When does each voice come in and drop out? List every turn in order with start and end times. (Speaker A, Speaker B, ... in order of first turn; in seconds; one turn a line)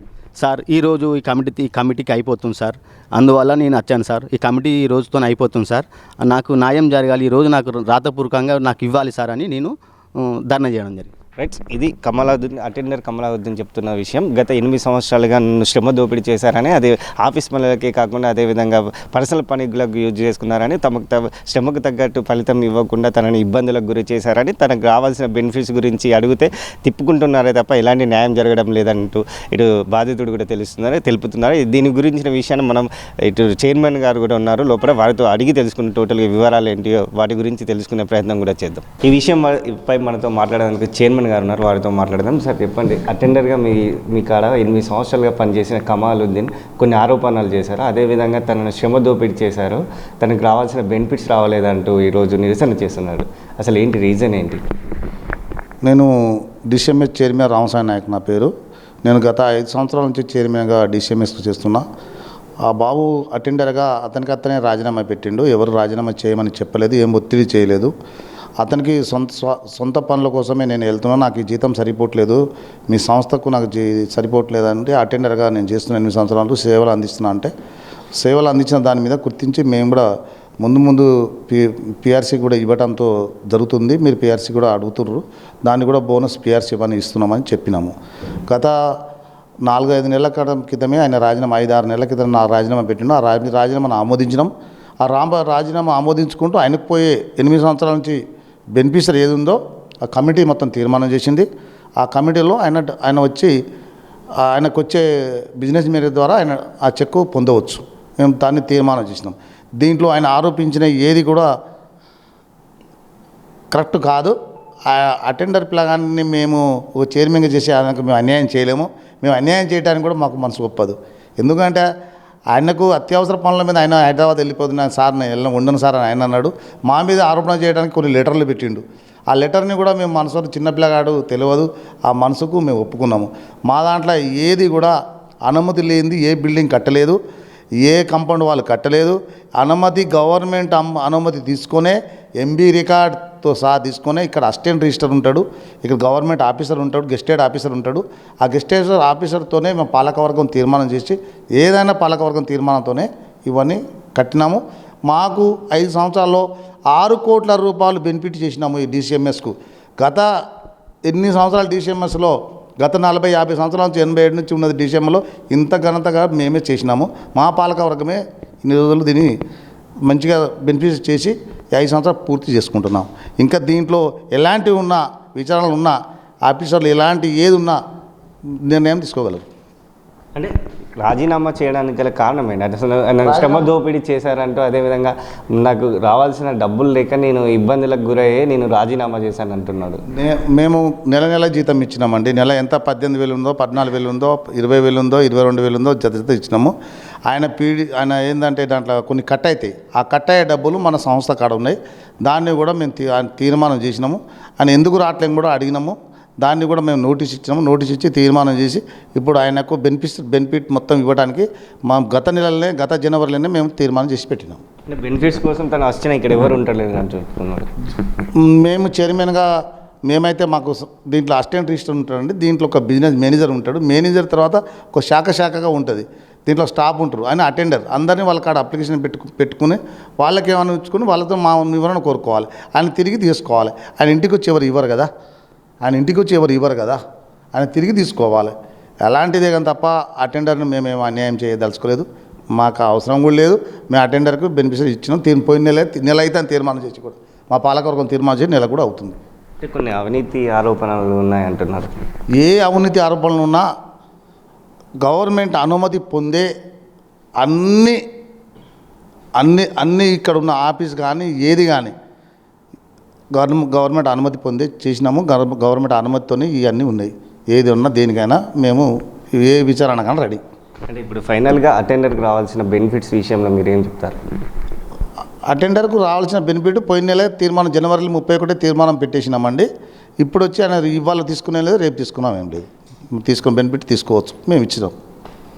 Speaker A: 0.4-11.1
Speaker B: 11.4-54.6
Speaker C: 55.8-58.5
Speaker C: 59.0-61.9
Speaker C: 62.7-67.9
Speaker C: 68.6-77.5
Speaker C: 78.2-80.0
Speaker C: 80.6-87.9
Speaker C: 88.5-89.0
Speaker C: 89.7-94.5
Speaker C: 95.0-98.2
Speaker C: 98.8-99.6
Speaker C: 100.1-101.5
Speaker C: 102.0-103.5
Speaker C: 104.4-111.5
Speaker C: 113.7-114.3
Speaker C: 114.9-121.8
Speaker C: 122.5-134.9
Speaker C: 135.5-137.2
Speaker C: 137.8-160.3
Speaker C: 161.1-169.3
Speaker C: 170.1-177.8
Speaker C: 178.7-179.4
Speaker B: 180.3-190.0
Speaker C: 183.2-183.7
Speaker C: 190.1-196.7
Speaker C: 197.3-214.6
Speaker B: 214.9-217.7
Speaker C: 218.3-219.4
Speaker C: 220.1-235.1
Speaker C: 235.8-237.0
Speaker C: 237.5-242.0
Speaker C: 242.6-249.2
Speaker B: 249.6-251.9
Speaker C: 252.4-253.7
Speaker C: 255.0-256.5
Speaker C: 257.4-258.0
Speaker C: 259.4-261.9
Speaker C: 263.4-268.9
Speaker C: 269.4-270.4
Speaker B: 270.9-274.2
Speaker C: 275.5-279.7
Speaker C: 280.2-282.6
Speaker C: 283.2-284.9